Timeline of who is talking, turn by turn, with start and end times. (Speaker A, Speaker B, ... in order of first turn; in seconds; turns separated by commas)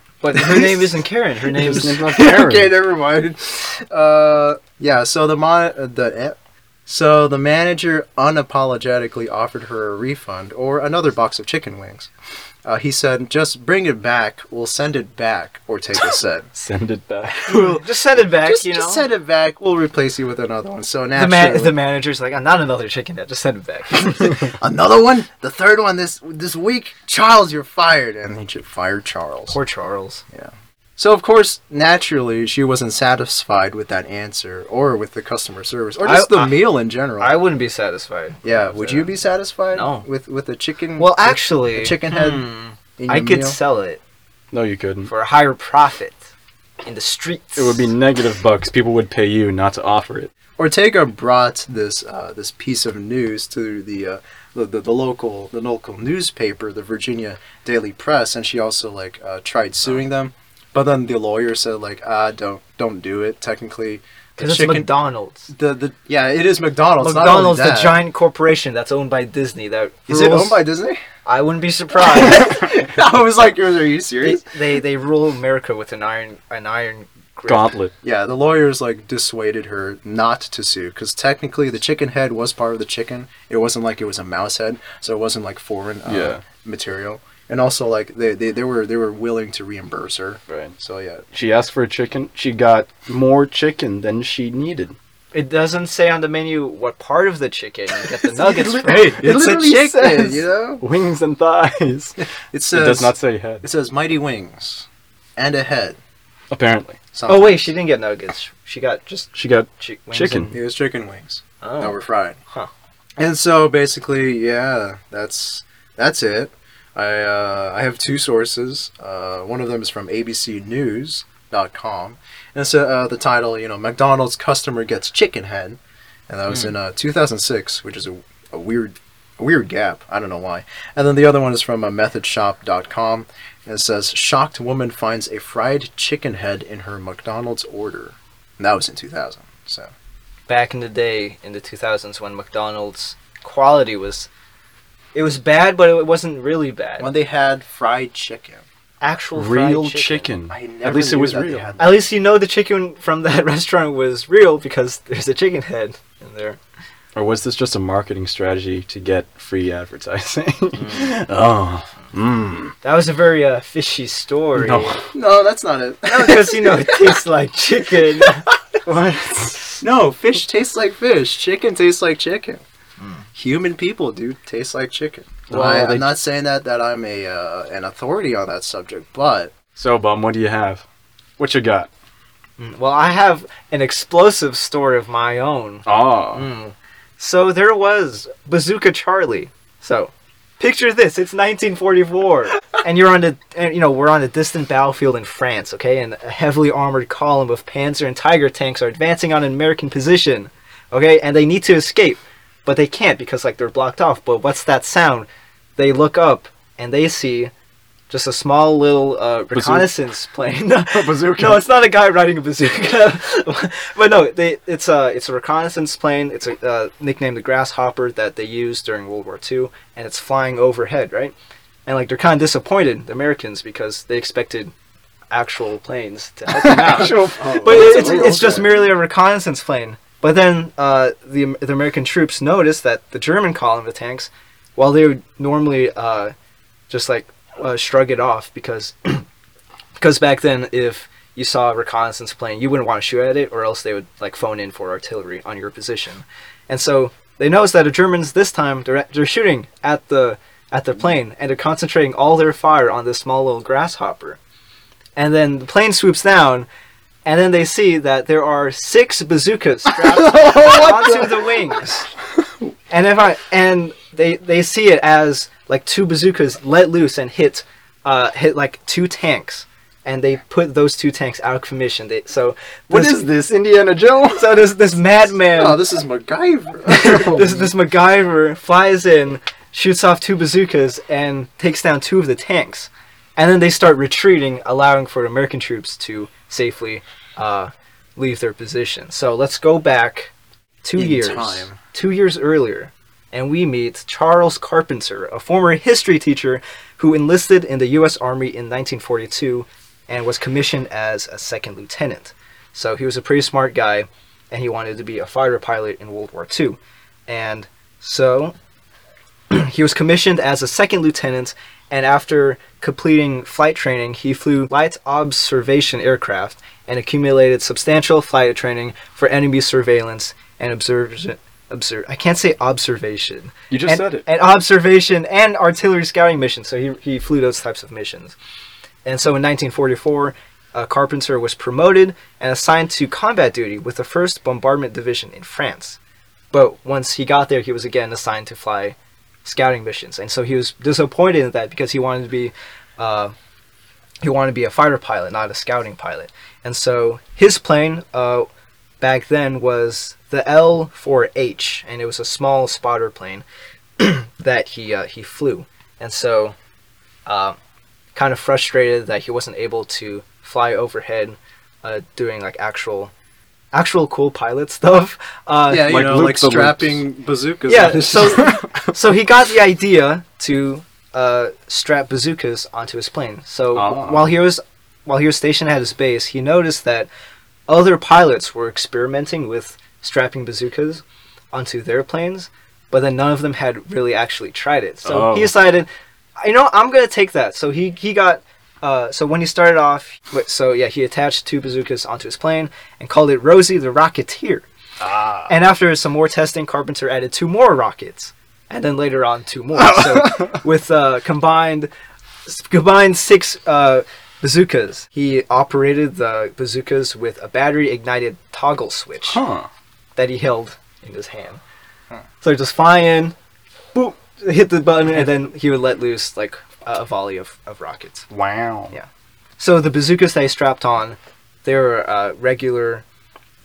Speaker A: 0.2-2.0, Speaker B: 0.4-0.8, Speaker C: 1.5-2.7, Speaker B: 1.9-12.1, Speaker B: 12.6-16.5, Speaker C: 16.0-17.6, Speaker B: 17.4-21.8, Speaker A: 17.5-19.1, Speaker A: 21.1-24.4, Speaker B: 24.0-29.6, Speaker A: 29.5-30.2, Speaker B: 30.3-37.4, Speaker A: 36.0-36.7, Speaker A: 37.2-39.1, Speaker B: 38.4-43.6, Speaker A: 39.7-40.0, Speaker A: 41.0-44.0, Speaker C: 44.5-45.1, Speaker A: 45.0-46.2, Speaker A: 46.8-47.9, Speaker C: 47.5-50.3, Speaker B: 50.6-64.9, Speaker A: 64.4-65.5, Speaker B: 65.5-68.0, Speaker A: 67.0-70.6, Speaker B: 70.1-71.0, Speaker A: 71.2-72.7, Speaker B: 72.0-74.6, Speaker A: 74.2-77.7, Speaker C: 77.5-77.9, Speaker B: 78.0-91.2, Speaker C: 86.0-86.4, Speaker C: 90.5-90.7, Speaker C: 91.3-95.0, Speaker A: 95.3-99.3, Speaker B: 98.4-100.8, Speaker C: 98.4-102.2, Speaker B: 102.5-104.8, Speaker C: 102.7-103.7, Speaker B: 105.4-106.0, Speaker C: 106.5-107.0, Speaker B: 107.1-107.6, Speaker A: 107.2-110.5, Speaker C: 109.3-110.5, Speaker B: 110.5-112.4, Speaker A: 111.6-112.0, Speaker B: 113.2-139.9, Speaker A: 140.5-144.3, Speaker A: 145.1-147.1, Speaker B: 147.0-148.6, Speaker A: 149.0-150.3, Speaker C: 149.3-151.7, Speaker B: 150.5-152.0, Speaker A: 151.8-156.6, Speaker C: 157.1-162.7, Speaker A: 160.8-161.1, Speaker A: 162.8-165.0, Speaker C: 164.6-165.0, Speaker B: 165.1-167.2, Speaker A: 166.1-168.5, Speaker C: 168.8-169.8, Speaker B: 169.8-172.6, Speaker B: 173.3-179.5, Speaker C: 175.5-176.1, Speaker C: 179.7-180.8, Speaker C: 181.4-181.9, Speaker A: 182.6-207.5, Speaker C: 185.8-186.5, Speaker A: 208.1-221.3, Speaker C: 209.5-209.9, Speaker C: 210.9-211.7, Speaker A: 221.8-224.7, Speaker A: 225.3-236.3, Speaker C: 226.5-228.7, Speaker B: 227.0-228.8, Speaker A: 236.9-239.2, Speaker A: 240.0-254.4, Speaker A: 255.2-256.7, Speaker A: 257.2-262.1, Speaker C: 259.9-261.6, Speaker A: 262.9-273.3, Speaker C: 272.9-274.6, Speaker A: 274.3-275.8, Speaker B: 275.5-277.6, Speaker A: 276.9-290.3, Speaker A: 290.8-308.5, Speaker B: 291.0-291.8, Speaker A: 309.5-328.4, Speaker C: 323.7-324.2, Speaker A: 329.0-336.0, Speaker A: 336.5-343.3, Speaker A: 344.2-348.5, Speaker A: 349.0-353.4, Speaker A: 354.0-356.5, Speaker A: 357.2-357.6, Speaker A: 358.1-363.1, Speaker A: 363.7-365.9, Speaker B: 365.7-368.6, Speaker C: 365.8-367.0, Speaker A: 367.7-377.1, Speaker C: 368.4-368.7, Speaker C: 373.7-374.3, Speaker A: 377.7-385.9, Speaker C: 385.0-385.5, Speaker A: 386.4-394.7, Speaker C: 395.0-395.5, Speaker A: 395.5-401.9, Speaker C: 399.8-400.6, Speaker A: 402.4-409.4, Speaker C: 409.3-409.7, Speaker A: 410.1-411.6, Speaker A: 412.4-413.3, Speaker A: 413.9-418.3, Speaker C: 418.3-418.9, Speaker A: 419.6-423.0